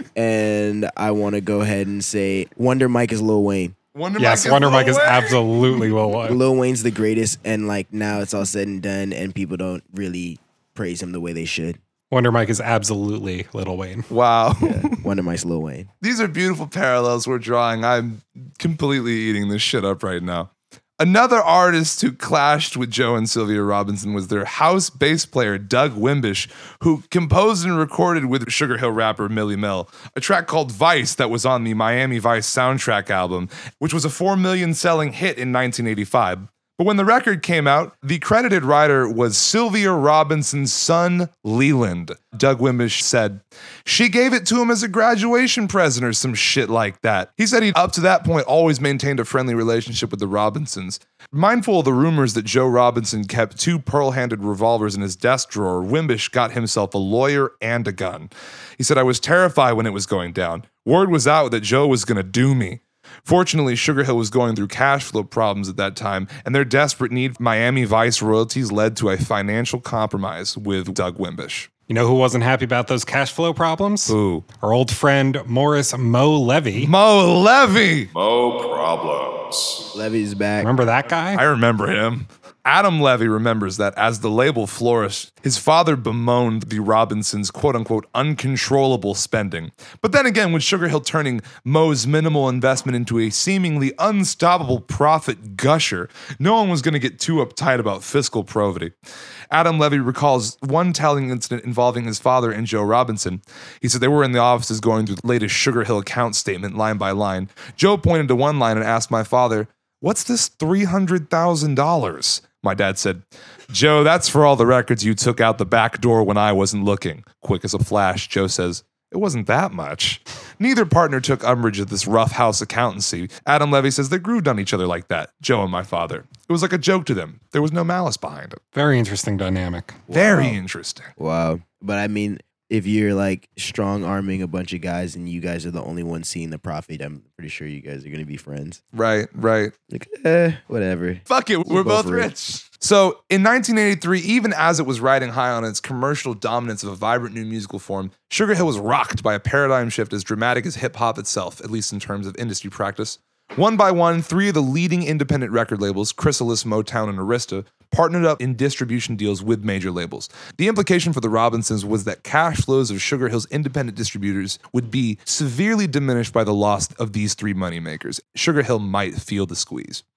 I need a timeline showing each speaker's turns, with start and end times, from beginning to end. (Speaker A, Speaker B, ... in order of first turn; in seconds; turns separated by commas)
Speaker A: 0.1-3.7, Speaker B: 3.9-5.8, Speaker C: 4.2-6.4, Speaker A: 6.2-11.8, Speaker C: 12.1-14.1, Speaker B: 14.1-15.0, Speaker A: 14.6-15.9, Speaker B: 16.0-71.7, Speaker C: 71.9-76.9, Speaker B: 74.1-74.4, Speaker B: 76.7-79.8, Speaker A: 79.9-80.7, Speaker C: 80.6-81.4, Speaker B: 81.3-98.9, Speaker B: 99.5-128.6, Speaker C: 128.7-130.0, Speaker A: 130.1-130.6, Speaker B: 130.1-131.1, Speaker A: 131.2-138.8, Speaker B: 138.9-139.7, Speaker A: 139.9-142.3, Speaker B: 141.3-170.0